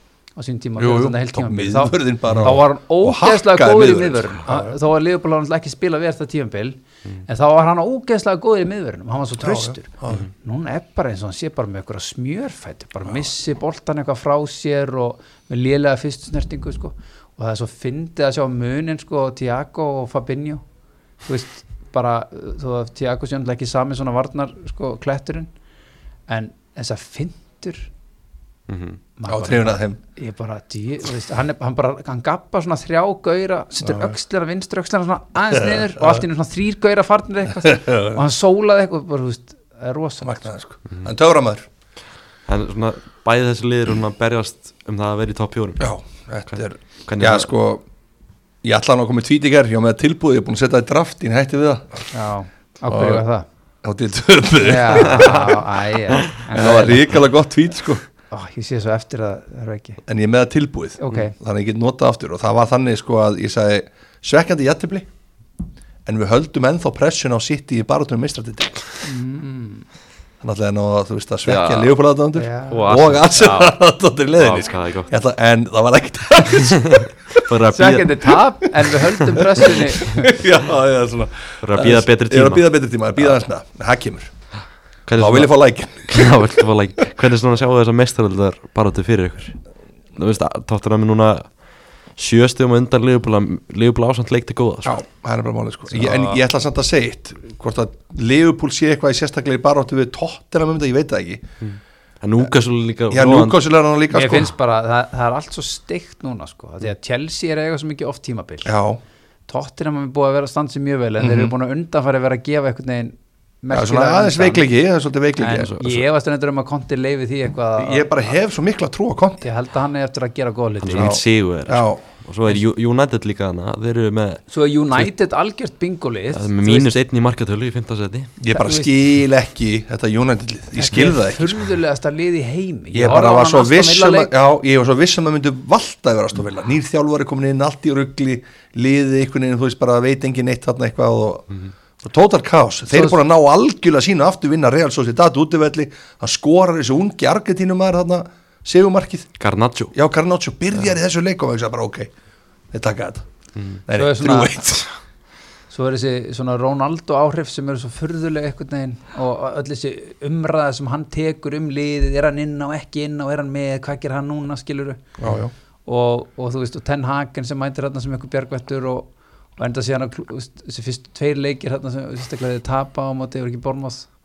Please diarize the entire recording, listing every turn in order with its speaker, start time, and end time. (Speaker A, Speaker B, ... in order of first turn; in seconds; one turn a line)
Speaker A: 0.4-20.6
Speaker B: 0.8-4.7
Speaker C: 2.3-2.5
Speaker B: 9.4-10.2
Speaker A: 21.2-25.5
Speaker A: 26.3-27.9
Speaker C: 28.7-29.0
Speaker A: 29.2-40.5
Speaker B: 29.3-30.0
Speaker B: 33.8-34.1
Speaker B: 35.5-36.2
Speaker B: 37.6-38.2
Speaker B: 40.2-41.6
Speaker C: 42.5-45.9
Speaker B: 45.8-47.8
Speaker C: 47.0-47.5
Speaker B: 48.6-52.1
Speaker A: 52.1-53.5
Speaker B: 52.9-53.2
Speaker B: 53.8-55.6
Speaker A: 54.6-57.1
Speaker B: 56.5-58.0
Speaker A: 58.3-60.0
Speaker B: 60.0-65.1
Speaker A: 61.0-61.3
Speaker B: 66.0-68.8
Speaker A: 69.0-69.8
Speaker B: 70.4-77.4
Speaker C: 71.4-71.9
Speaker A: 72.3-72.9
Speaker C: 72.7-73.8
Speaker C: 74.4-75.1
Speaker C: 76.6-78.4
Speaker A: 77.7-80.4
Speaker B: 79.4-84.3
Speaker C: 81.6-82.7
Speaker C: 85.1-89.5
Speaker B: 85.1-86.3
Speaker C: 90.2-91.5
Speaker C: 92.2-95.0
Speaker B: 94.8-101.5
Speaker A: 95.9-96.4
Speaker C: 101.6-103.6
Speaker B: 103.1-104.5
Speaker A: 104.1-108.7
Speaker B: 108.6-109.0
Speaker A: 109.5-114.7
Speaker B: 111.2-111.5
Speaker B: 113.7-115.7
Speaker A: 115.4-118.2
Speaker C: 115.7-116.0
Speaker B: 117.8-119.4
Speaker A: 119.4-121.2
Speaker C: 120.8-124.4
Speaker B: 120.9-122.0
Speaker A: 124.5-127.0
Speaker C: 126.3-128.3
Speaker B: 128.4-131.7
Speaker A: 128.5-128.9
Speaker A: 130.8-134.3
Speaker B: 132.9-149.3
Speaker A: 142.9-143.2
Speaker C: 149.4-149.9
Speaker B: 149.9-152.1
Speaker B: 152.7-153.2
Speaker C: 153.6-153.8
Speaker B: 153.8-154.9
Speaker A: 153.9-154.6
Speaker A: 155.7-165.0
Speaker B: 165.2-165.5
Speaker A: 165.8-174.1